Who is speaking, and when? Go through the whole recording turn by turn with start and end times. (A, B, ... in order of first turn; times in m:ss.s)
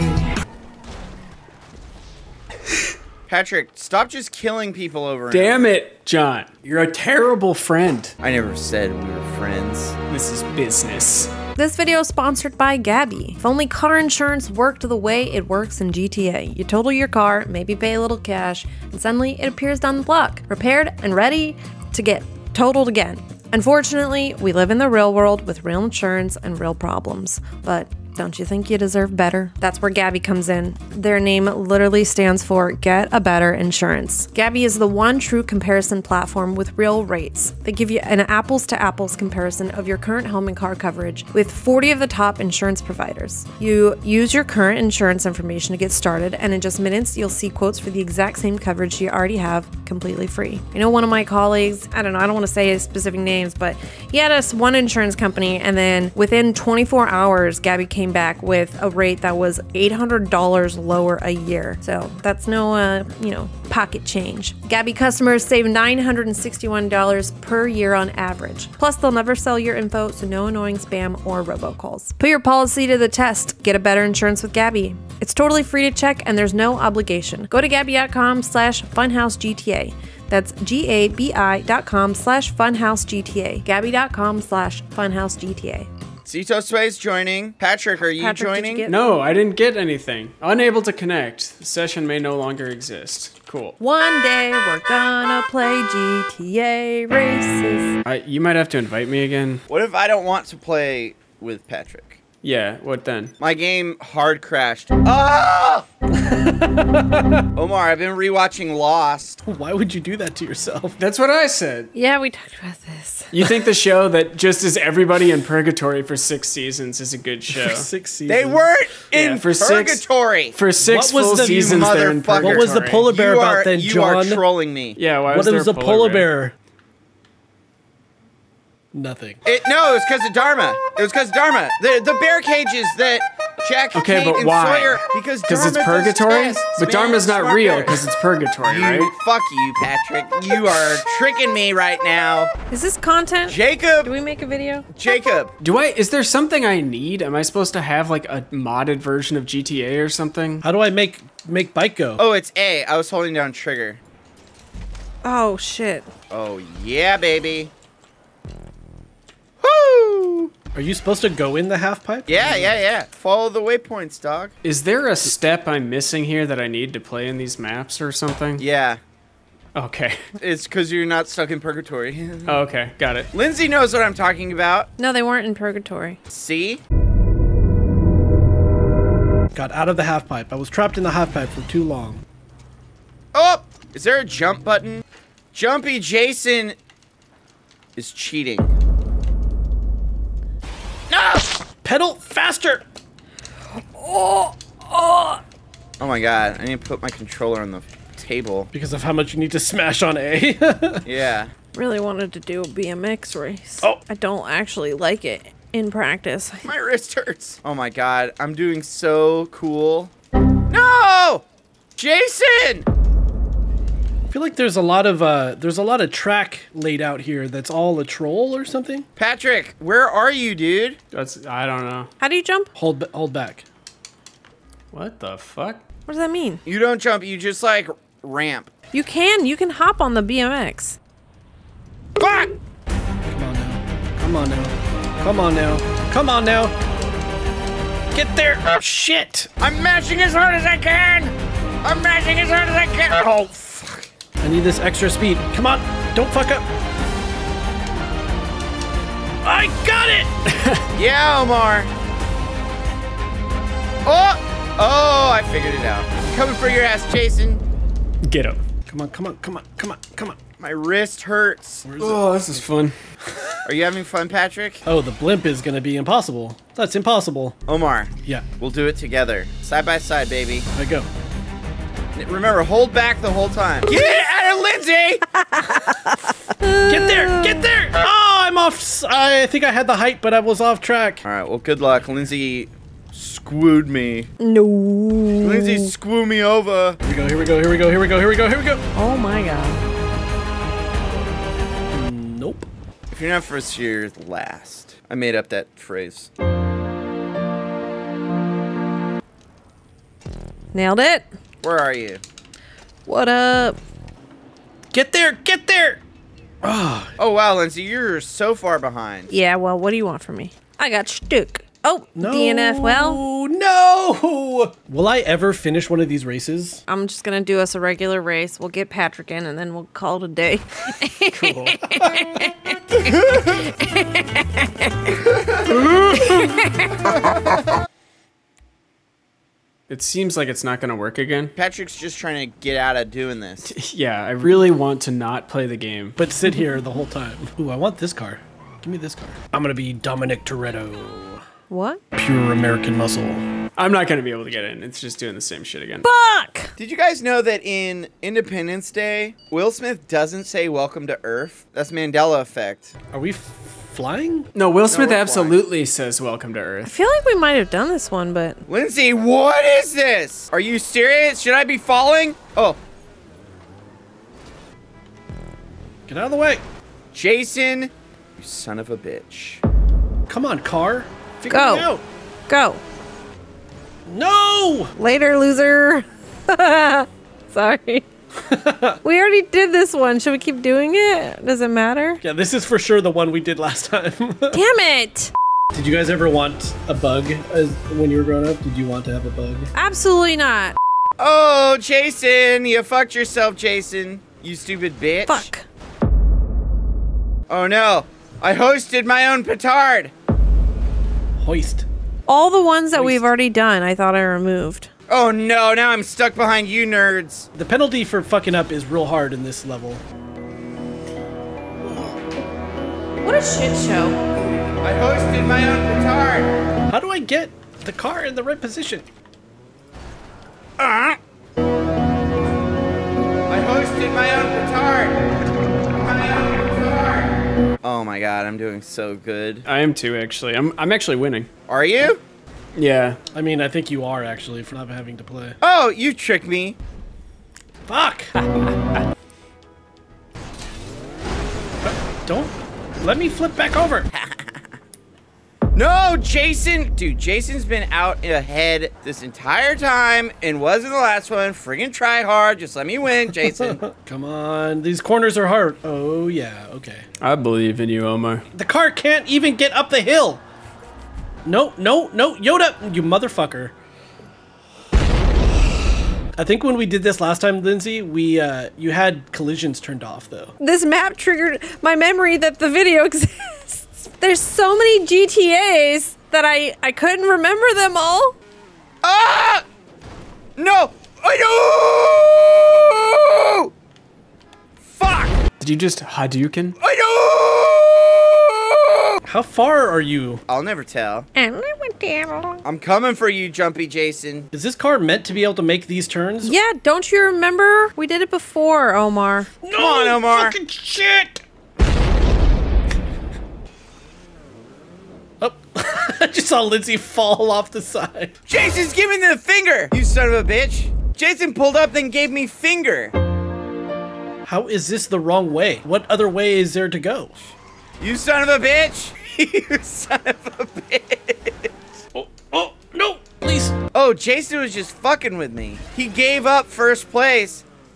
0:03.3-0:05.7 A
0:05.3-0:08.1 B
0:08.2-0:10.0 A
0:10.1-0:11.3 B
0:11.6-1:25.9 C
1:26.3-1:28.8 A
1:28.0-1:29.0 C
1:28.9-1:33.8 B
1:33.8-1:37.9 C
1:38.0-1:39.6 B
1:39.7-1:42.2 A
1:42.4-1:43.3 B
1:43.4-1:45.8 A
1:46.6-1:47.4 D
1:47.6-1:49.4 A
1:49.4-1:51.0 D
1:51.0-1:51.9 B
1:51.9-1:53.3 C
1:53.3-1:57.9 B
1:57.5-1:58.7 D
1:58.3-2:00.6 A
1:59.1-2:03.1 B
2:00.8-2:04.4 D
2:01.4-2:05.0 A
2:05.0-2:06.3 B
2:05.3-2:06.5 D
2:08.9-2:09.4 D
2:09.4-2:18.0 A
2:13.9-2:19.1 B
2:18.6-2:22.5 A
2:22.7-2:25.3 C
2:23.5-2:24.1 A
2:25.0-2:25.5 A
2:25.6-2:30.6 B
2:30.6-2:32.2 D
2:32.2-2:34.0 A
2:35.2-2:36.1 C
2:36.3-2:37.7 A
2:39.6-2:40.5 A
2:40.7-2:42.8 D
2:42.3-2:44.5 A
2:44.6-2:48.6 B
2:48.6-2:49.0 A
2:49.8-2:50.2 B
2:50.4-2:52.5 A
2:52.5-2:53.3 B
2:53.3-2:54.9 A
2:55.0-2:56.2 C
2:56.3-2:56.8 A
2:59.5-3:02.2 D
3:03.3-3:05.0 A
3:05.5-3:06.8 A
3:08.0-3:08.7 A
3:11.1-3:11.5 A
3:11.8-3:12.8 D
3:13.8-3:15.4 C
3:16.0-3:18.7 A
3:18.7-3:21.1 D
3:21.1-3:21.5 A
3:21.7-3:26.8 C
3:26.6-3:30.1 A
3:30.7-3:31.4 A
3:32.0-3:32.8 A
3:34.3-3:39.1 D
3:39.2-3:41.0 A
3:41.1-3:42.1 B
3:42.2-3:42.7 C
3:42.8-3:43.6 D
3:44.9-3:45.8 B
3:46.1-3:46.6 C
3:46.7-3:48.7 A
3:48.9-3:51.0 C
3:53.3-3:56.8 D
3:58.1-3:59.5 D
3:59.6-4:04.1 A
4:04.4-4:06.7 D
4:09.4-4:10.3 D
4:10.5-4:10.8 B
4:11.0-4:11.9 A
4:14.0-4:17.6 A
4:18.2-4:18.6 B
4:18.9-4:20.4 D
4:20.6-4:21.9 A
4:21.8-4:22.6 D
4:22.0-4:23.0 B
4:23.2-4:23.6 D
4:23.7-4:24.8 A
4:24.9-4:27.6 D
4:27.7-4:30.7 A
4:28.2-4:28.5 D
4:30.8-4:31.1 D
4:32.2-4:35.2 A
4:35.5-4:37.6 C
4:36.9-4:41.2 D
4:41.2-4:44.3 A
4:44.4-4:45.9 C
4:45.4-4:47.0 A
4:47.0-4:48.8 D
4:49.0-4:49.8 C
4:51.9-4:52.7 D
4:53.1-4:56.3 A
5:00.7-5:01.3 C
5:01.6-5:02.2 A
5:03.1-5:03.8 C
5:04.9-5:06.0 D
5:06.6-5:07.1 D
5:07.2-5:09.3 A
5:09.3-5:13.2 C
5:12.2-5:16.8 D
5:16.9-5:25.1 C
5:21.4-5:22.1 D
5:25.9-5:27.1 C
5:29.9-5:31.5 B
5:31.6-5:33.7 A
5:33.7-5:36.2 B
5:36.2-5:41.4 D
5:36.5-5:36.8 C
5:41.7-5:42.0 C
5:42.1-5:43.4 D
5:43.8-5:46.1 B
5:46.0-5:46.7 C
5:46.8-5:52.9 A
5:53.1-5:54.5 D
5:54.5-5:56.9 B
5:54.9-5:55.6 A
5:56.8-5:58.6 C
5:58.7-6:02.8 A
6:06.1-6:06.6 D
6:07.1-6:09.6 A
6:10.3-6:12.0 D
6:11.5-6:11.9 C
6:12.5-6:12.8 C
6:14.1-6:14.9 D
6:15.0-6:18.1 C
6:18.5-6:19.0 D
6:19.0-6:22.2 C
6:22.2-6:24.6 D
6:24.5-6:25.3 C
6:25.7-6:29.7 D
6:29.8-6:30.8 C
6:31.2-6:35.5 A
6:35.2-6:35.6 C
6:37.5-6:40.1 A
6:41.4-6:41.9 D
6:42.3-6:44.9 C
6:42.9-6:43.2 D
6:45.1-6:47.5 A
6:47.5-6:50.0 D
6:53.2-6:54.2 C
6:54.8-6:56.5 A
6:56.9-6:59.1 D
7:00.8-7:01.2 A
7:03.5-7:05.2 A
7:06.0-7:09.7 A
7:09.7-7:11.5 B
7:11.7-7:12.2 A
7:12.8-7:13.2 B
7:13.3-7:15.6 D
7:15.6-7:16.8 A
7:17.9-7:18.4 D
7:21.8-7:24.1 D
7:24.1-7:24.5 A
7:25.8-7:33.8 A
7:33.7-7:37.1 D
7:37.2-7:38.4 B
7:38.5-7:40.4 D
7:41.5-7:43.7 D
7:46.4-7:50.5 D
7:50.6-7:58.4 C
7:59.0-7:59.6 A
8:00.6-8:03.7 A
8:04.8-8:05.4 A
8:05.6-8:06.8 B
8:06.8-8:09.2 A
8:09.2-8:10.4 D
8:10.5-8:11.3 A
8:11.4-8:12.6 C
8:12.6-8:14.5 A
8:14.5-8:16.6 D
8:16.4-8:19.6 C
8:19.6-8:21.4 D
8:19.8-8:20.6 A
8:25.4-8:28.3 D
8:28.5-8:33.1 A
8:34.4-8:37.5 D
8:38.0-8:41.7 A
8:42.1-8:43.8 D
8:43.9-8:47.7 A